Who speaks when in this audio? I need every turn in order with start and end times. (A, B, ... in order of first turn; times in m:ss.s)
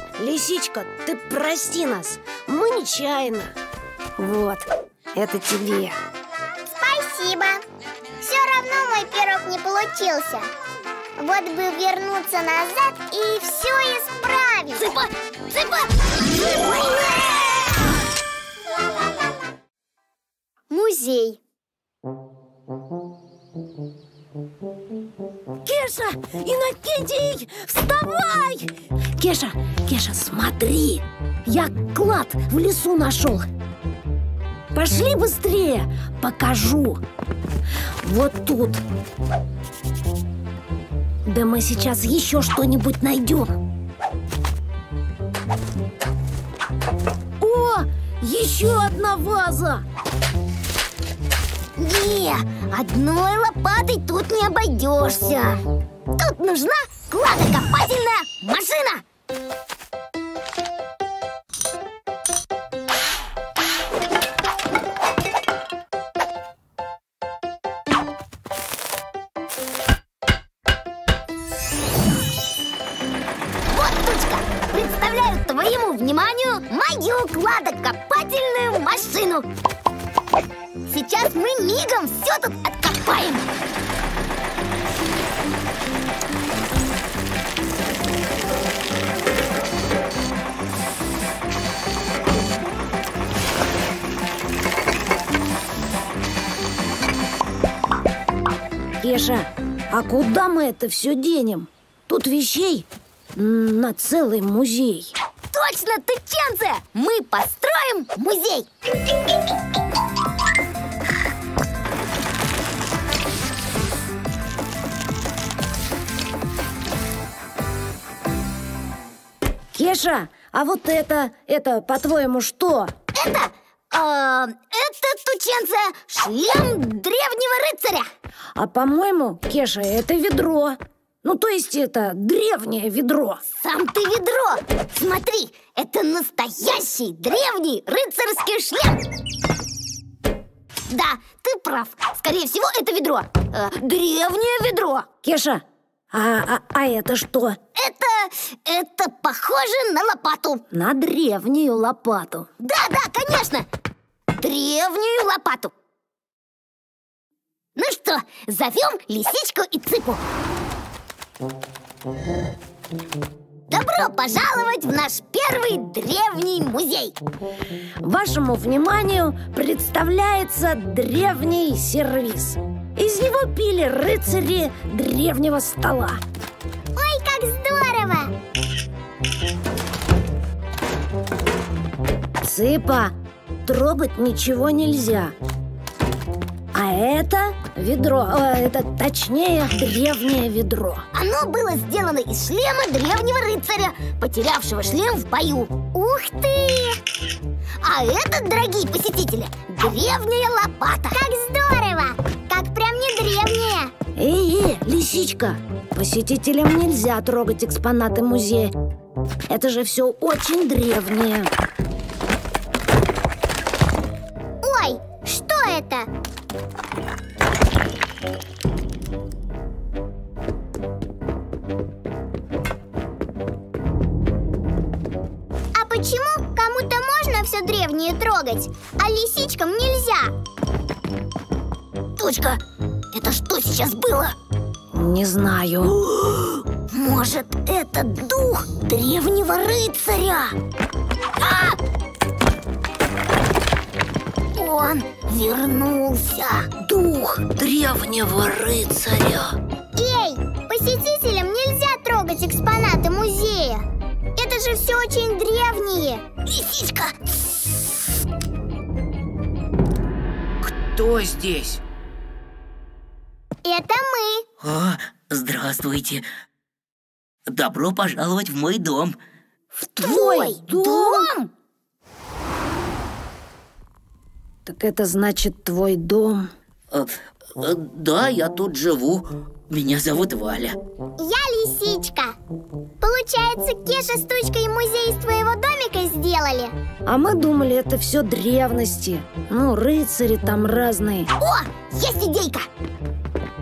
0:00.2-0:03.6 A
0:04.2-0:06.0 A
0:06.8-0:07.6 B
0:08.2-0:10.5 B
0:11.2-0:14.9 B
0:14.8-0:17.4 C
0:20.7-0:21.4 C
0:25.6-0:33.5 A
0:34.7-0:37.0 A
0:38.0-0:38.8 A
0:41.2-0:43.6 A
0:47.4-0:49.8 A
0:51.8-0:55.6 C
0:56.2-0:59.0 C
1:13.7-1:19.5 C
1:20.9-1:23.5 C
1:39.0-1:45.2 A
1:45.5-1:48.7 C
1:59.7-2:02.9 A
2:03.1-2:08.1 C
2:08.6-2:13.4 A
2:13.5-2:19.0 C
2:20.9-2:25.1 C
2:25.2-2:27.6 A
2:27.8-2:30.6 C
2:30.7-2:32.5 A
2:32.6-2:33.7 C
2:34.4-2:35.7 C
2:37.8-2:40.2 C
2:43.7-2:47.2 C
2:48.0-2:56.2 A
2:57.0-2:58.3 B
3:02.4-3:05.4 A
3:06.7-3:11.0 A
3:11.1-3:15.7 C
3:15.9-3:17.0 B
3:17.8-3:21.2 C
3:21.1-3:23.9 B
3:24.2-3:28.8 A
3:29.5-3:31.5 A
3:34.6-3:36.1 B
3:45.8-3:50.3 B
3:52.2-3:52.6 C
3:53.1-3:54.4 C
3:54.9-3:56.0 A
3:56.1-4:00.6 C
4:01.4-4:01.8 C
4:04.6-4:06.7 C
4:06.8-4:09.6 A
4:10.0-4:16.2 B
4:16.5-4:17.8 C
4:20.6-4:21.8 D
4:23.6-4:24.4 B
4:24.6-4:26.2 D
4:27.5-4:29.2 D
4:30.0-4:31.3 A
4:30.0-4:31.5 C
4:34.7-4:36.5 A
4:36.9-4:40.8 D
4:41.2-4:42.4 B
4:43.0-4:46.7 B
4:47.1-4:51.3 A
4:51.4-4:52.7 C